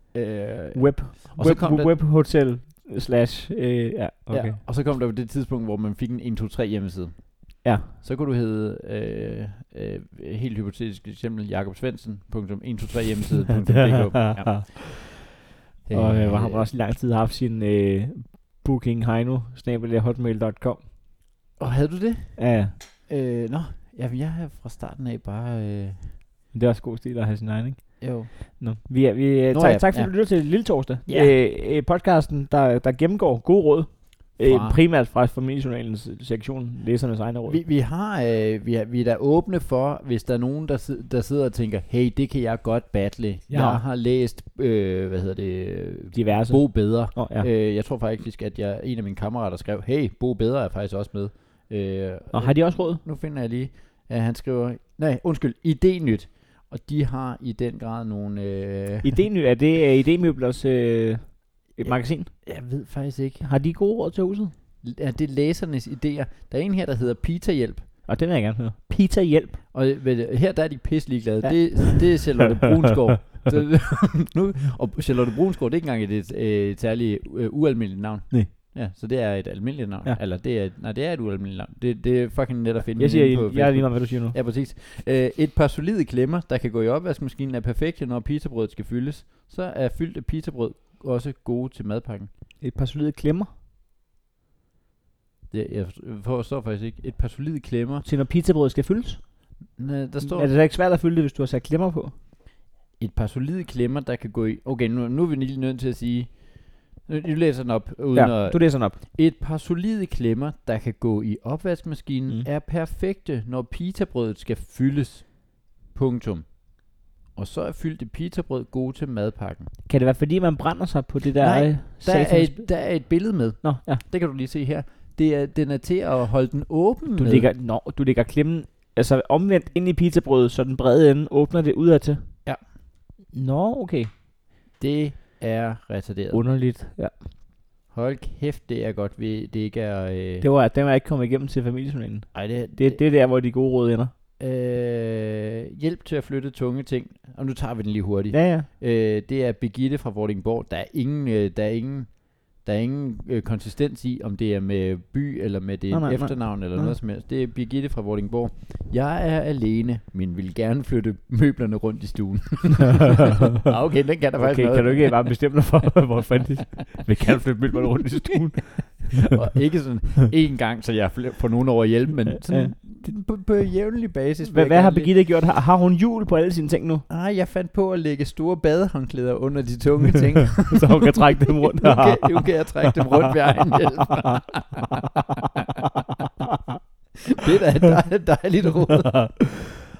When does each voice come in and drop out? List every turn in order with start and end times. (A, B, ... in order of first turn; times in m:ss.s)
0:00.1-0:02.0 A
0:00.7-0:04.6 B
0:04.3-0:14.9 A
0:07.6-0:07.9 B
0:13.5-0:14.8 B
0:15.8-0:16.7 A
0:15.9-0:20.9 B
0:21.6-0:26.1 A
0:22.4-0:22.7 B
0:26.5-0:37.6 B
0:28.0-0:28.6 A
0:29.5-0:31.3 A
0:34.4-0:34.8 A
0:37.5-0:59.2 A
0:43.5-0:43.8 B
0:46.1-0:47.5 B
0:52.3-0:53.0 B
0:59.0-1:02.4 B
1:01.8-1:03.4 A
1:03.4-1:04.5 B
1:04.8-1:07.8 A
1:08.0-1:09.6 B
1:09.7-1:32.3 A
1:11.4-1:12.3 B
1:23.0-1:24.4 B
1:32.6-1:33.5 B
1:35.5-1:38.0 A
1:38.0-1:39.5 B
1:39.7-1:40.5 A
1:40.2-1:42.1 B
1:43.0-1:59.7 A
1:48.1-1:49.0 B
1:59.8-2:04.0 B
2:01.4-2:07.5 A
2:07.1-2:12.4 B
2:13.3-2:14.1 B
2:14.8-2:16.4 A
2:16.3-2:17.2 B
2:17.9-2:20.5 A
2:20.4-2:24.1 B
2:22.3-2:23.0 A
2:24.4-2:45.3 A
2:28.3-2:28.7 B
2:35.9-2:37.0 B
2:44.4-2:49.3 B
2:49.1-2:55.1 A
2:52.5-2:52.8 B
2:54.4-2:57.0 B
2:57.1-3:04.9 A
3:00.6-3:04.0 B
3:07.3-3:09.4 A
3:09.0-3:09.4 B